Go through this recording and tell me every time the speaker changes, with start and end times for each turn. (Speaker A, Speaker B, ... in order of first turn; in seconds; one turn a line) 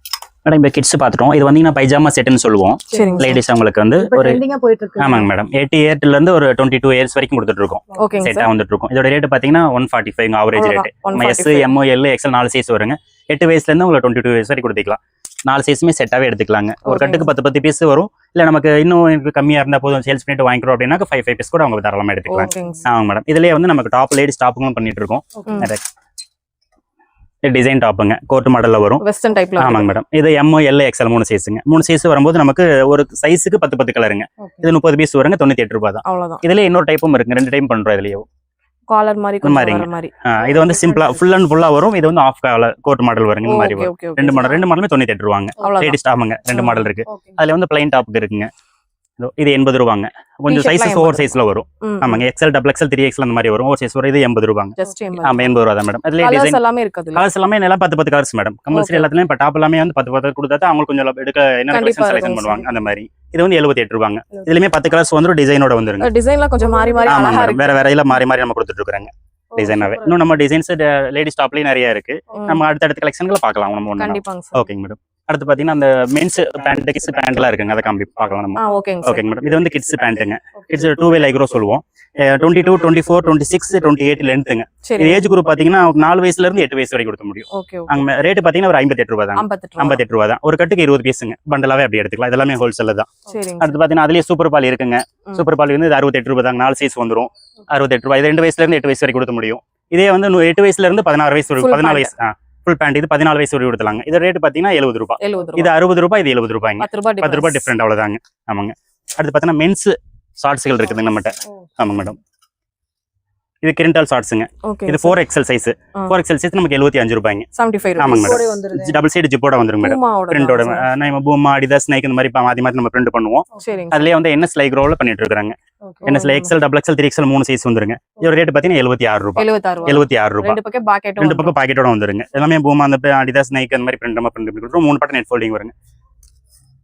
Speaker A: 0.4-4.4
Speaker B: 2.9-3.4
Speaker C: 4.0-5.3
Speaker A: 5.0-25.9
Speaker B: 8.0-8.5
Speaker B: 10.5-11.7
Speaker B: 16.8-17.3
Speaker B: 22.3-22.9
Speaker C: 25.3-25.6
Speaker A: 27.4-29.0
Speaker B: 29.0-29.9
Speaker A: 29.6-38.2
Speaker C: 34.4-34.7
Speaker B: 36.0-36.4
Speaker B: 38.9-40.1
Speaker A: 39.4-48.5
Speaker C: 40.4-41.2
Speaker B: 43.4-44.6
Speaker B: 45.6-46.0
Speaker B: 46.5-46.9
Speaker C: 47.1-47.4
Speaker A: 49.2-56.6
Speaker B: 50.5-52.2
Speaker B: 54.8-55.5
Speaker B: 56.2-57.2
Speaker A: 57.1-66.1
Speaker B: 58.7-59.1
Speaker B: 61.7-62.7
Speaker B: 66.0-67.8
Speaker C: 66.6-67.1
Speaker A: 67.0-112.2
Speaker C: 69.5-70.3
Speaker B: 72.3-72.6
Speaker B: 74.0-74.7
Speaker B: 78.6-79.2
Speaker B: 84.8-85.2
Speaker B: 87.5-88.0
Speaker B: 89.3-90.0
Speaker B: 93.2-93.8
Speaker B: 101.6-102.1
Speaker B: 105.2-105.7
Speaker B: 106.8-107.7
Speaker A: 113.6-130.6
Speaker B: 114.7-115.2
Speaker B: 117.5-118.4
Speaker C: 118.0-119.0
Speaker B: 119.8-120.8
Speaker B: 123.6-124.0
Speaker C: 125.8-126.1
Speaker B: 126.0-126.5
Speaker B: 129.4-131.5
Speaker A: 131.2-135.7